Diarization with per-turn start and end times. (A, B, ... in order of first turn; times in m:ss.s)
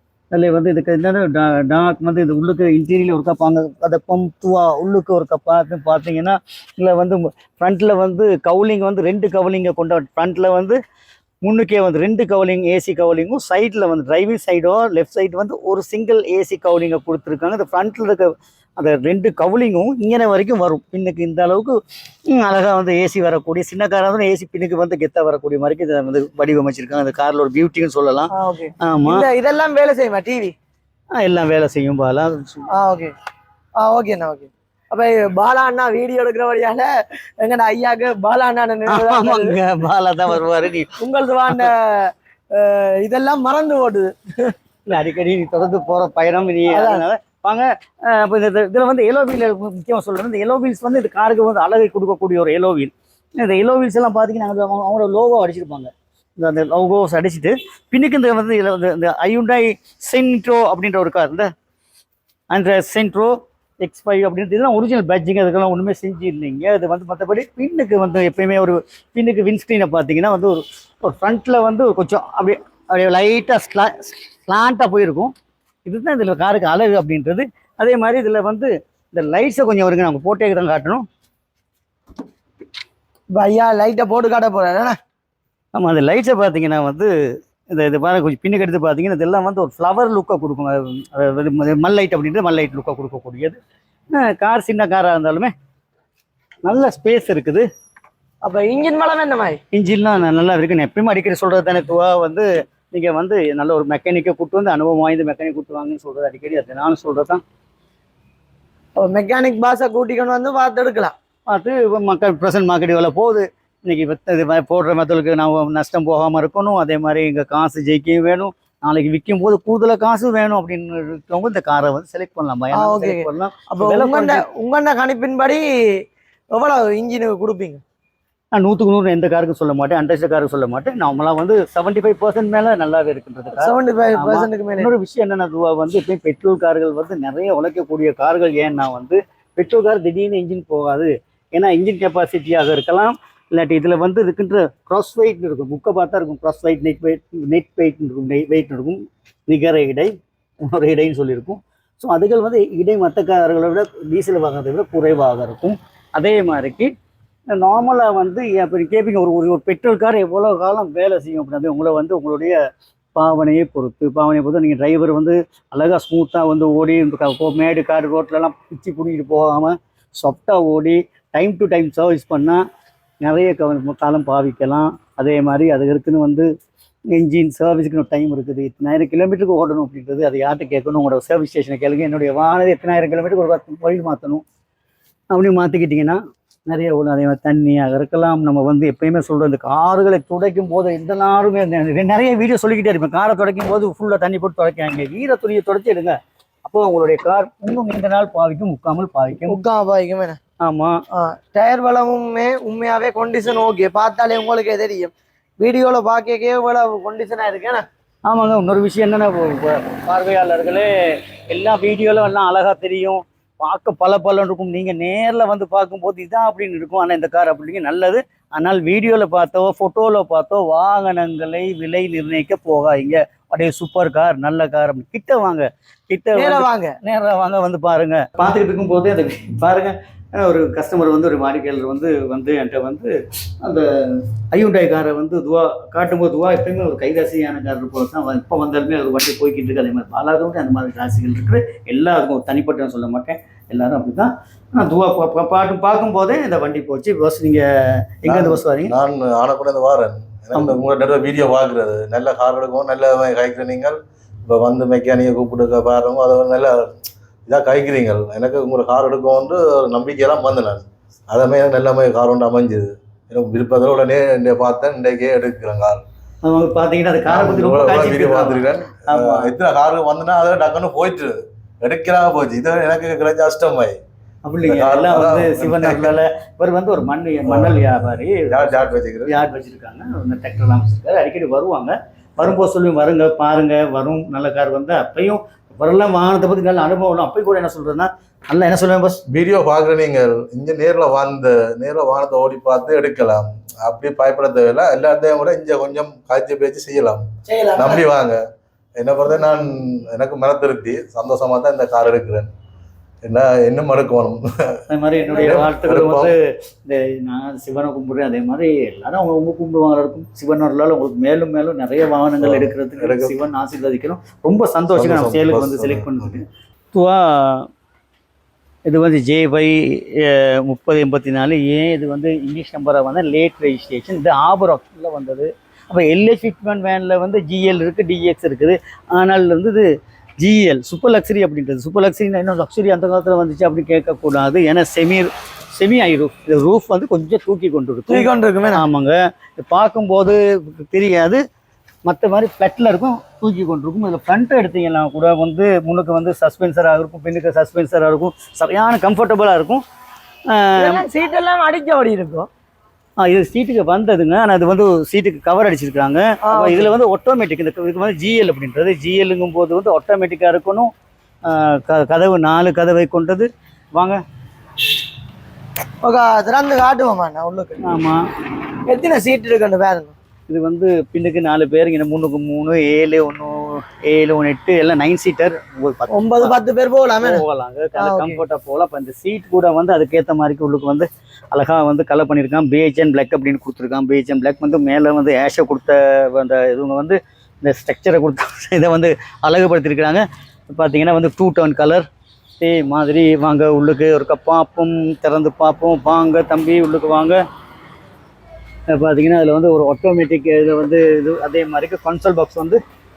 0:00.3-0:10.8 A
0:11.4-0:21.8 A
0:22.3-0:28.3 A
0:28.3-0:30.5 B
0:28.8-0:29.3 A
0:31.1-0:32.7 A
0:32.7-0:33.1 B
0:33.8-0:39.6 B
0:38.9-0:41.0 A
0:41.0-0:44.5 B
0:44.9-1:01.5 A
0:46.7-0:47.0 B
1:02.5-1:15.3 A
1:15.9-1:21.0 A
1:23.3-1:25.0 B
1:25.7-1:27.1 A
1:27.7-1:33.6 A
1:34.1-1:35.5 A
1:36.6-1:37.6 A
1:38.4-1:39.6 B
1:39.7-1:47.4 A
1:49.0-1:51.1 B
1:51.5-2:04.4 A
2:02.7-2:07.8 B
2:08.5-2:36.9 A
2:13.6-2:14.9 B
2:37.5-2:42.6 A
2:43.2-2:52.6 A
2:53.2-2:56.5 A
2:57.1-3:04.4 A
3:05.3-3:19.6 A
3:19.5-3:20.4 B
3:20.6-3:21.0 A
3:21.1-3:27.8 B
3:28.3-4:08.9 A
3:46.3-3:47.0 B
4:08.3-4:16.9 C
4:10.6-4:10.8 A
4:17.5-4:26.0 C
4:26.4-4:29.6 A
4:27.3-4:34.0 C
4:34.4-4:49.2 A
4:34.6-4:36.2 C
4:37.4-4:39.4 C
4:49.3-4:57.2 C
4:57.5-4:58.0 B
4:57.8-4:58.4 C
4:59.0-5:02.5 C
5:03.2-5:04.8 C
5:04.9-5:17.7 A
5:05.4-5:06.3 C
5:12.4-5:13.4 C
5:14.9-5:16.4 C
5:18.9-5:29.9 A
5:30.4-5:41.4 A
5:38.1-5:38.9 B
5:42.1-5:49.8 A
5:50.5-5:51.0 A
5:50.8-5:52.5 B
5:53.2-6:00.9 A
5:56.4-5:56.9 B
6:01.5-6:04.2 A
6:06.0-6:07.8 B
6:07.8-6:08.2 A
6:08.9-6:10.2 B
6:10.5-6:16.5 A
6:16.1-6:17.4 B
6:17.2-6:32.1 A
6:18.0-6:18.4 B
6:32.6-6:37.4 A
6:38.9-6:42.8 A